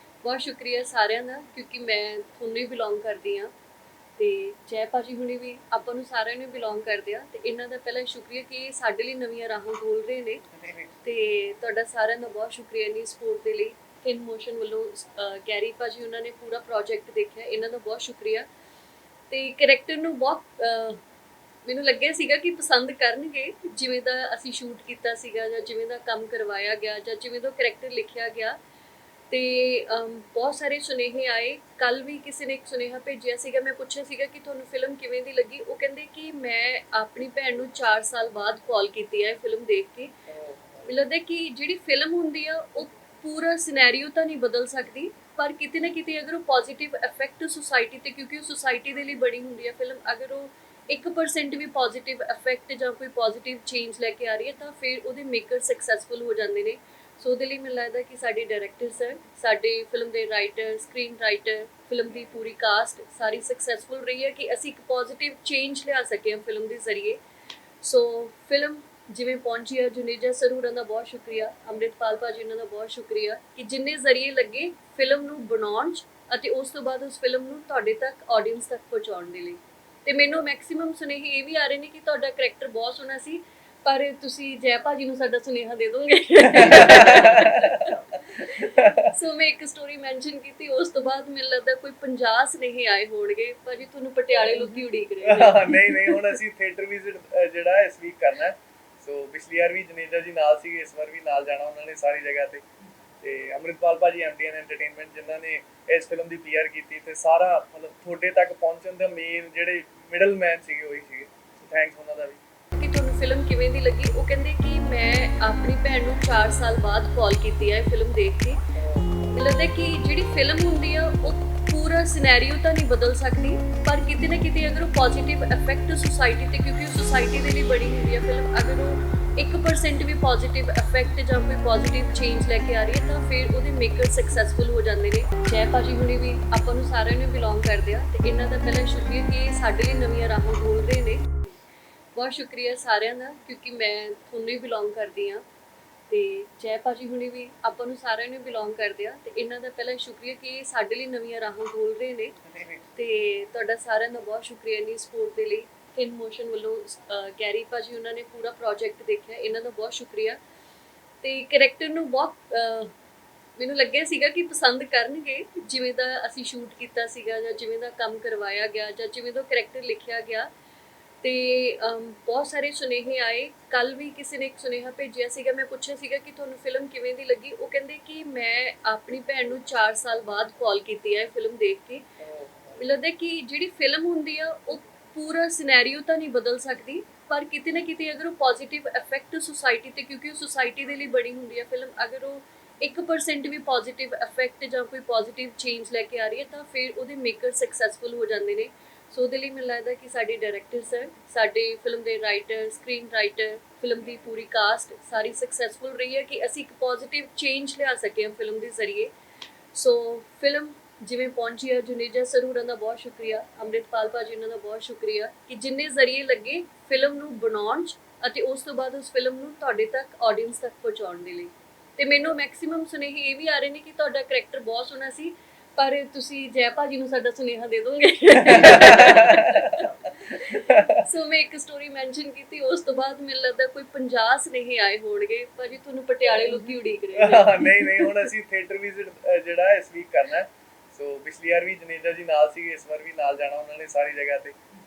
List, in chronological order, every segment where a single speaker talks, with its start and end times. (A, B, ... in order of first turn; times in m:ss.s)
0:00.2-0:03.5 A
0:04.2-0:10.5 A
0:11.0-0:18.5 A
0:19.3-0:21.0 A
0:21.6-0:28.6 A
0:29.3-0:40.1 A
0:40.3-0:40.8 B
0:40.8-1:07.2 A
1:07.8-1:36.4 A
1:26.5-1:29.1 B
1:34.5-1:42.6 B
1:43.2-1:52.4 B
1:52.7-1:58.6 A
1:58.8-1:59.3 B
1:59.3-2:21.5 A
2:22.1-2:25.4 A
2:26.1-2:40.4 A
2:41.2-2:42.9 A
2:43.6-2:50.5 A
2:51.2-3:02.1 A
3:02.2-3:02.8 B
3:02.8-3:29.1 A
3:29.7-3:58.3 A
3:48.4-3:51.1 B
3:56.2-4:04.6 B